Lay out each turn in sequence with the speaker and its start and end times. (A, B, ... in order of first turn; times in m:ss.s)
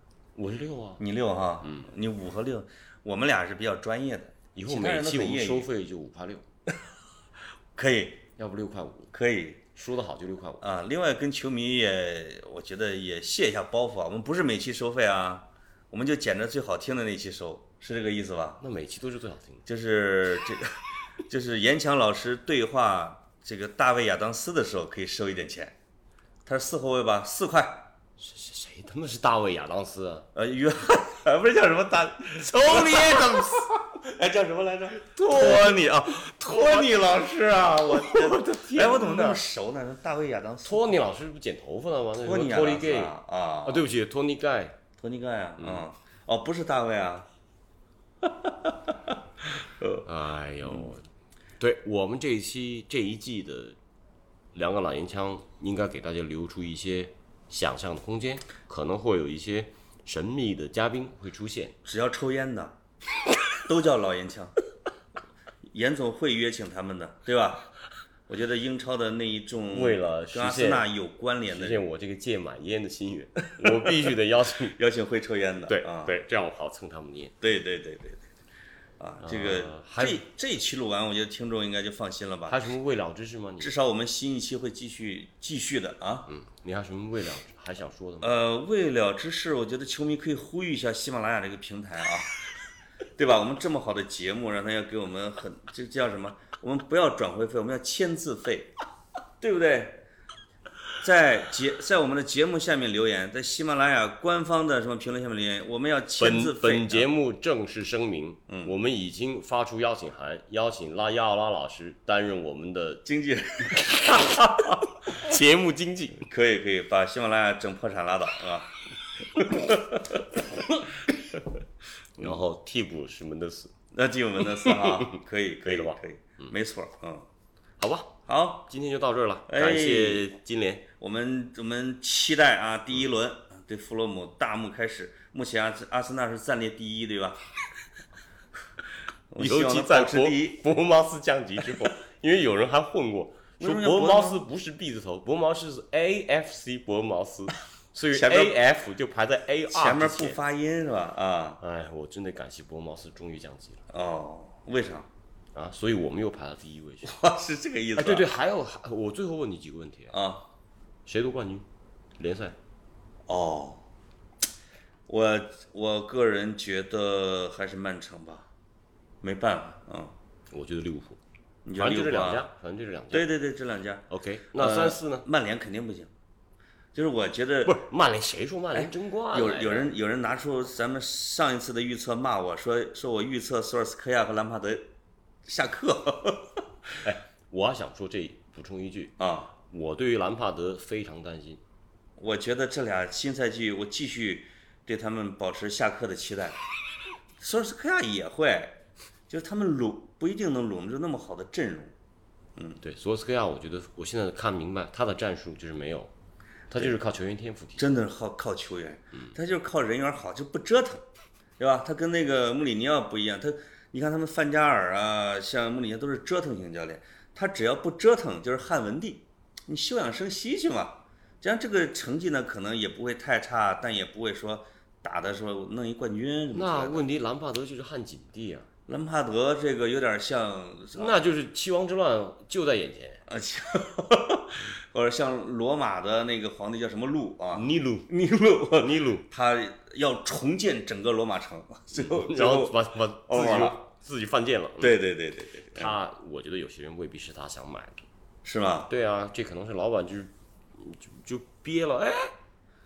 0:00.4-0:01.0 A
0:01.0-0:05.7 B
0:01.6-0:01.9 A
0:04.5-0:06.4 A
0:07.7-0:08.2 B
0:08.4-0:09.1 A
0:09.1-0:09.6 B
0:09.7-0:10.6 A
0:10.6-0:18.6 B
0:18.6-0:19.6 A
0:19.6-0:25.8 B
0:26.4-0:27.9 B
0:28.2-0:30.3 A
0:30.3-0:40.9 B
0:32.4-0:33.7 A
0:35.2-0:35.9 A
0:36.4-0:36.9 A
0:37.7-0:39.4 A
0:40.6-0:44.8 A
0:42.2-0:43.9 B
0:45.0-0:47.3 B
0:45.6-0:45.8 A
0:48.2-0:50.0 B
0:50.0-0:51.0 A
0:51.6-0:53.8 A
0:54.5-1:01.8 A
1:01.8-1:02.8 B
1:03.5-1:04.5 B
1:05.7-1:07.7 B
1:08.3-1:11.8 B
1:09.7-1:10.9 A
1:11.5-1:14.8 A
1:13.6-1:13.9 B
1:14.8-1:16.1 B
1:15.6-1:17.4 A
1:17.4-1:18.2 B
1:19.0-1:22.8 B
1:19.2-1:20.2 A
1:22.5-1:23.7 A
1:23.6-1:26.3 B
1:26.3-1:28.4 A
1:28.2-1:32.3 B
1:33.2-1:38.7 B
1:39.4-1:40.0 B
1:41.0-1:47.1 B
1:46.2-1:53.0 A
1:48.5-1:48.7 B
1:53.0-1:54.1 B
1:53.6-1:56.3 A
1:56.3-1:58.7 B
1:59.4-2:00.1 B
2:02.2-2:03.7 A
2:03.9-2:07.2 B
2:04.6-2:05.1 A
2:05.6-2:06.5 A
2:07.8-2:10.9 A
2:08.3-2:08.7 B
2:09.5-2:10.3 B
2:11.0-2:17.4 B
2:19.3-2:20.7 B
2:19.4-2:30.4 A
2:23.6-2:24.4 B
2:28.1-2:28.6 B
2:29.7-2:31.6 B
2:31.6-2:33.8 A
2:33.9-2:35.1 B
2:35.5-2:37.2 A
2:37.0-2:38.3 B
2:38.0-2:40.2 A
2:40.1-2:40.4 B
2:41.0-2:42.6 A
2:43.3-2:43.8 B
2:45.1-2:48.5 B
2:49.2-2:50.1 B
2:50.5-2:51.2 A
2:51.6-2:52.5 B
2:51.7-2:53.3 A
2:53.1-2:56.1 B
2:54.1-2:55.2 A
2:56.9-2:57.8 B
2:57.6-2:59.9 A
2:58.7-3:04.9 B
3:05.4-3:06.6 B
3:07.0-3:11.6 A
3:09.2-3:09.5 B
3:12.2-3:16.6 B
3:17.4-3:21.9 B
3:22.8-3:26.1 A
3:26.7-3:28.0 A
3:27.8-3:31.0 B
3:31.6-3:47.1 B
3:46.5-3:48.7 A
3:48.9-3:51.2 B
3:50.9-3:53.2 A
3:53.3-4:03.8 B
3:57.5-3:59.2 A
4:02.0-4:05.0 A
4:04.8-4:05.9 B
4:05.7-4:08.0 A
4:08.4-4:08.9 B
4:08.9-4:12.3 A